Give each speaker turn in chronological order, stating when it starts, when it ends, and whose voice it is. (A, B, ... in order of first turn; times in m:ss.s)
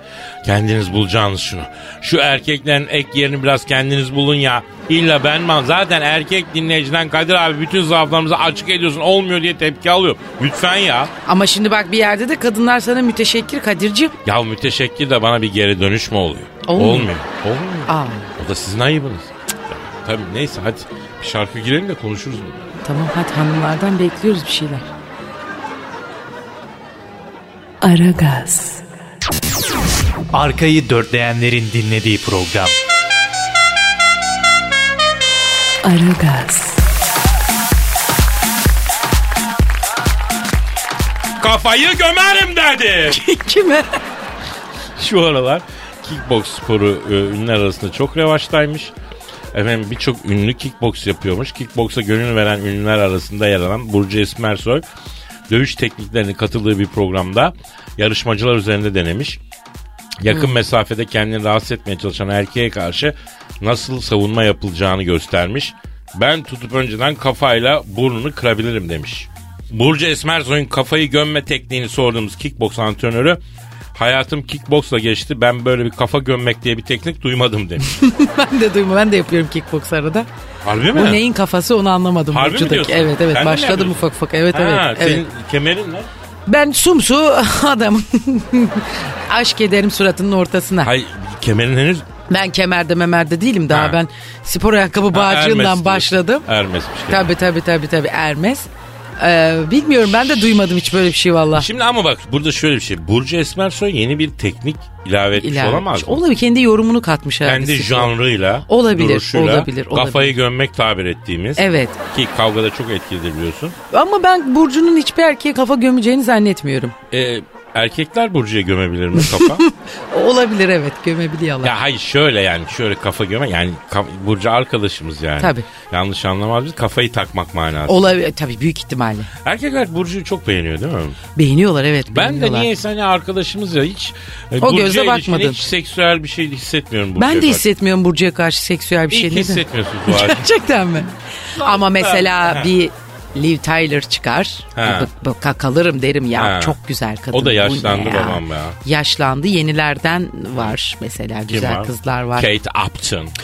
0:00.4-0:11.1 A
0:11.2-0:14.1 B
0:14.2-0:22.7 A
0:16.6-0:17.1 B
0:17.9-0:18.3 B
0:22.8-0:24.9 B
0:27.8-0:28.8 C
0:30.3-0:32.7 D
0:35.8-0:36.8 C
0:41.4-0:43.2 A
0:43.1-0:44.0 B
0:45.0-0:48.9 A
0:49.5-0:54.8 A
0:55.5-0:59.4 A
1:00.2-1:13.4 A
1:13.9-1:17.9 A
1:17.8-1:20.3 B
1:20.6-1:21.2 A
1:20.9-1:25.2 B
1:22.3-1:26.1 A
1:26.5-1:30.9 B
1:30.8-1:32.0 A
1:32.3-1:36.4 B
1:33.7-1:34.0 A
1:35.1-1:37.3 A
1:37.1-1:41.7 B
1:41.5-1:46.2 A
1:45.4-1:48.1 B
1:47.4-1:53.8 A
1:48.7-1:50.4 B
1:51.6-1:52.0 B
1:53.9-1:56.9 B
1:57.1-1:59.6 A
1:59.2-2:01.8 B
2:01.6-2:08.0 A
2:05.4-2:05.6 B
2:07.9-2:09.3 B
2:09.4-2:11.2 A
2:11.4-2:12.7 B
2:12.1-2:17.6 A
2:14.6-2:15.6 B
2:17.2-2:32.5 B
2:19.1-2:20.5 A
2:21.6-2:22.7 A
2:24.7-2:25.1 A
2:26.3-2:26.8 A
2:27.3-2:28.8 A
2:31.5-2:33.3 A